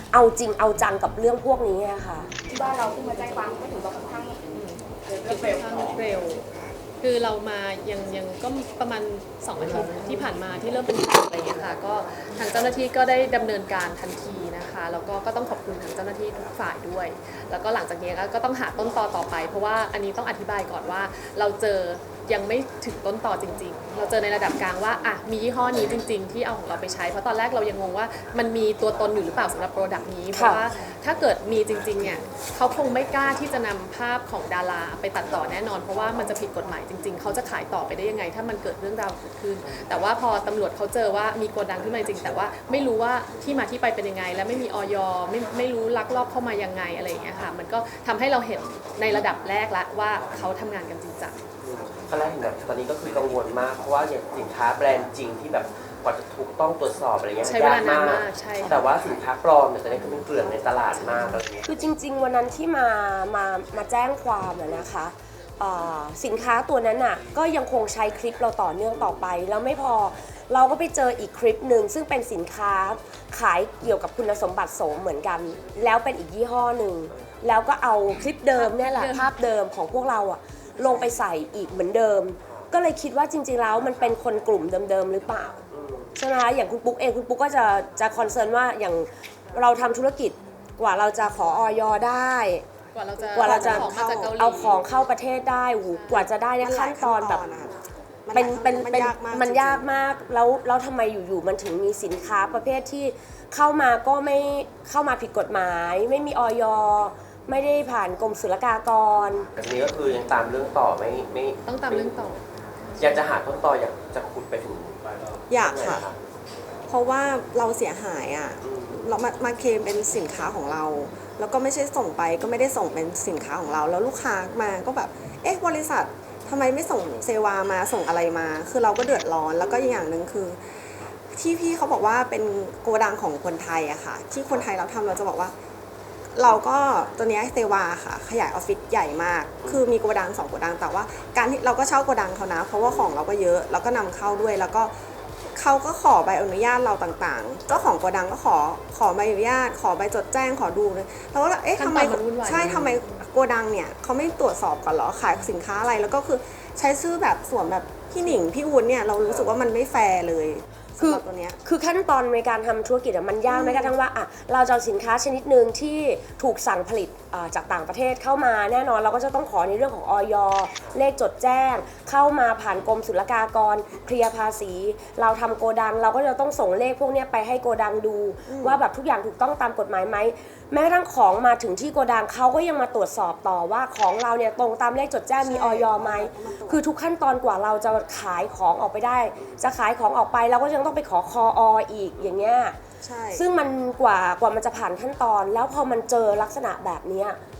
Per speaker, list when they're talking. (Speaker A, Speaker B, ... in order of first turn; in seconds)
Speaker A: 0.1-2.3, 30.3-30.6, 61.6-85.6, 86.2-92.6, 93.3-97.4, 98.3-109.5, 161.0-192.8, 193.3-197.4
Speaker B: 2.5-4.5, 5.1-6.0
Speaker C: 4.5-6.4, 7.0-51.4, 57.4-58.8, 61.0-61.3, 78.5-79.3, 92.9-94.8, 96.0-96.3, 111.7-112.4, 151.8-153.2
Speaker D: 51.6-61.7, 85.7-86.1, 109.5-112.2, 113.0-116.2, 118.6-119.0, 159.2-159.5
Speaker E: 93.2-94.4, 96.6-97.7, 98.2-99.9, 115.5-116.1, 116.9-130.6, 131.3-135.5, 136.3-144.9, 145.6-161.6, 163.5-163.9, 178.5-178.8, 185.4-186.8, 193.0-193.5